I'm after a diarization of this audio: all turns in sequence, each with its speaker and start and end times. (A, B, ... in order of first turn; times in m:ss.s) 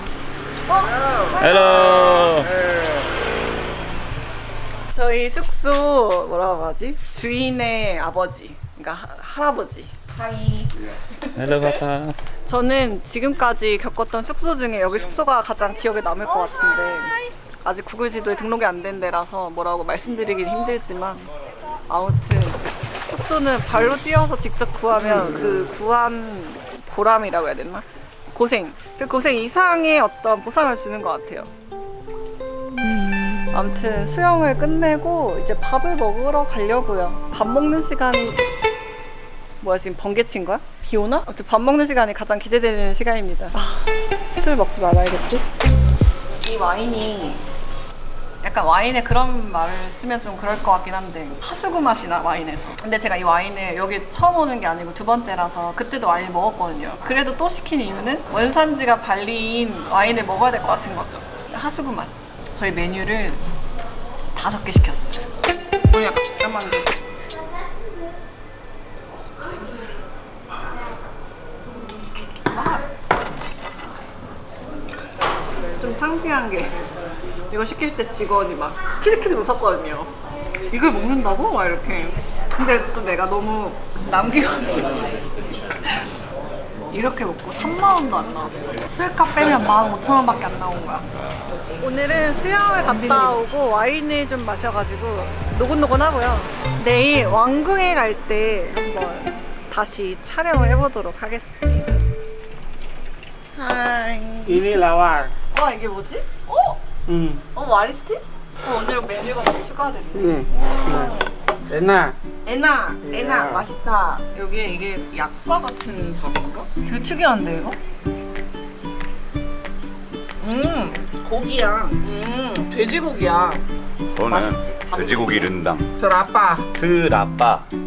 0:00.7-0:02.3 A
0:01.4-0:02.5 B
0:04.9-0:10.6 A
0:11.4-0:12.2 B
0:12.5-0:21.2 A
0:21.9-0:31.5 A
0:33.5-0:38.4 A
0:39.6-0:45.4 A
0:46.4-0:47.4 A
0:48.4-1:03.4 A
1:04.3-1:05.2 A
1:05.9-1:06.9 A
1:15.6-1:16.8 A
1:17.5-1:20.1 A
1:20.7-1:25.3 A
1:26.9-1:31.1 A
1:31.8-1:42.0 A
1:43.5-1:44.7 A
1:44.5-1:45.3 C
1:45.5-1:46.8 A
1:47.1-1:47.4 C
1:47.5-1:51.3 A
1:50.2-1:51.1 C
1:51.7-1:52.2 C
1:52.4-1:57.8 A
1:53.1-1:53.6 C
2:00.4-2:03.6 A
2:04.2-2:05.9 B
2:04.3-2:05.5 A
2:06.0-2:06.7 C
2:06.7-2:07.6 B